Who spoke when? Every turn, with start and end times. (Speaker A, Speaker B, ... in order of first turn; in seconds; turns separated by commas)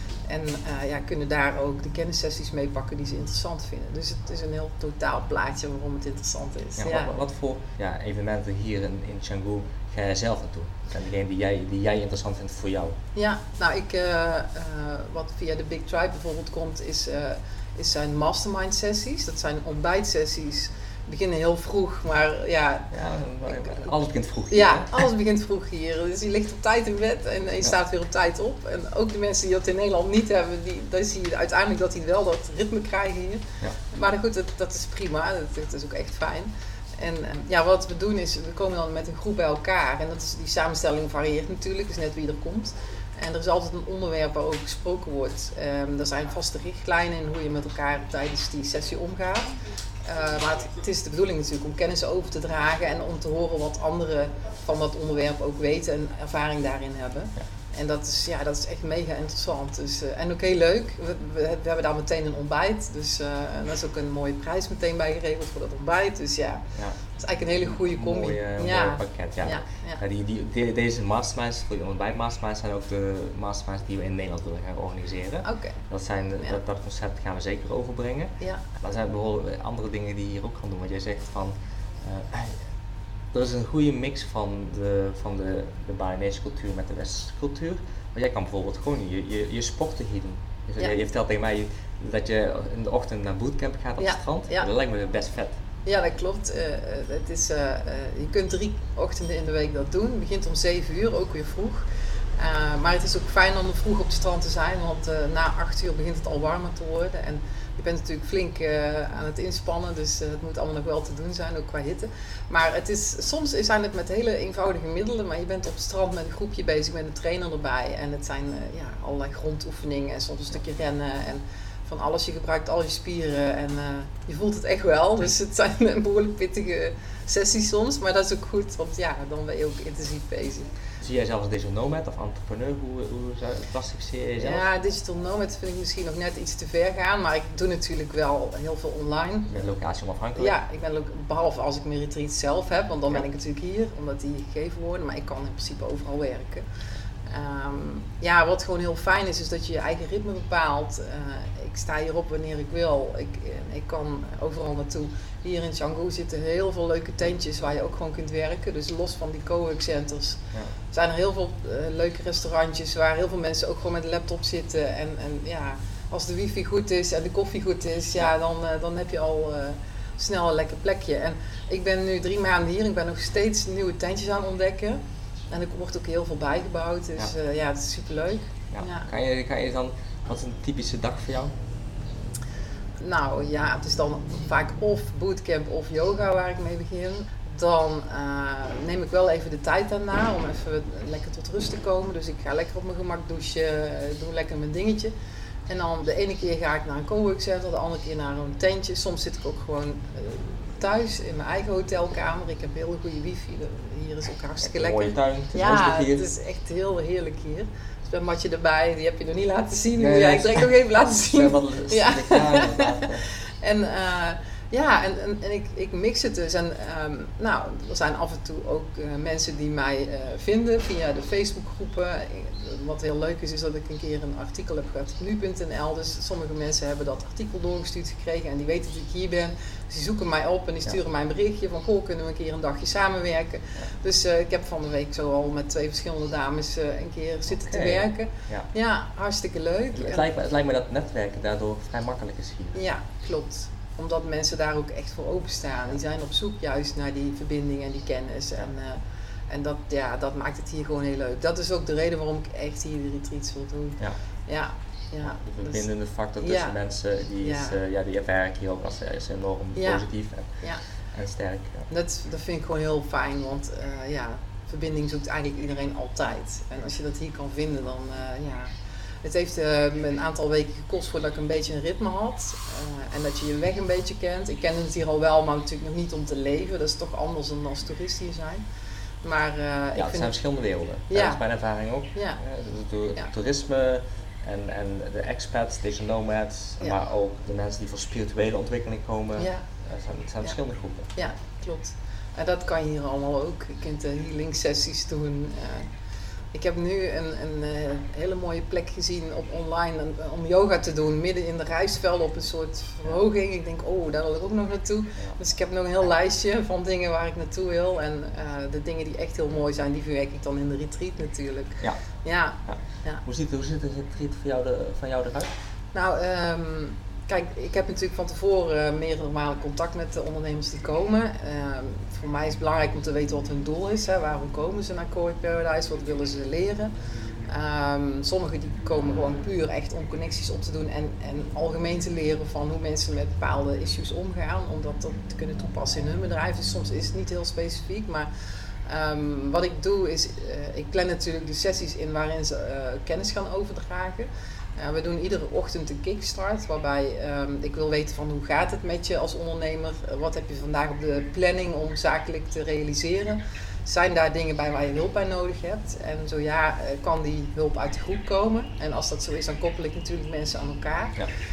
Speaker A: 0.3-7.2, Speaker B: 6.8-13.0, Speaker A: 13.2-22.9, Speaker B: 22.9-25.1, Speaker A: 23.4-23.9, Speaker A: 24.5-49.5, Speaker A: 50.0-70.0, Speaker B: 67.6-82.6, Speaker A: 75.4-75.8, Speaker B: 83.3-95.6, Speaker A: 94.0-94.7, Speaker A: 95.9-101.8, Speaker A: 102.4-130.7, Speaker B: 131.0-134.7, Speaker A: 134.4-139.5, Speaker B: 139.5-140.6, Speaker A: 140.4-146.7, Speaker A: 147.3-175.0, Speaker A: 175.5-179.1, Speaker B: 178.7-181.5, Speaker A: 183.0-195.1, Speaker A: 195.7-240.3, Speaker B: 204.6-206.3, Speaker B: 210.0-213.3, Speaker B: 237.7-238.7, Speaker B: 239.9-242.8, Speaker A: 242.8-255.8, Speaker B: 255.2-261.9, Speaker A: 256.4-256.7, Speaker A: 257.4-257.8, Speaker A: 259.8-260.1, Speaker A: 261.9-268.7, Speaker A: 269.2-278.6, Speaker A: 279.2-280.3, Speaker B: 279.9-291.1, Speaker A: 281.1-281.4, Speaker A: 282.1-282.4, Speaker A: 289.4-289.7, Speaker A: 291.2-295.9, Speaker A: 296.5-313.2, Speaker B: 312.7-315.5, Speaker A: 315.9-326.9, Speaker A: 327.5-338.3, Speaker A: 338.9-361.2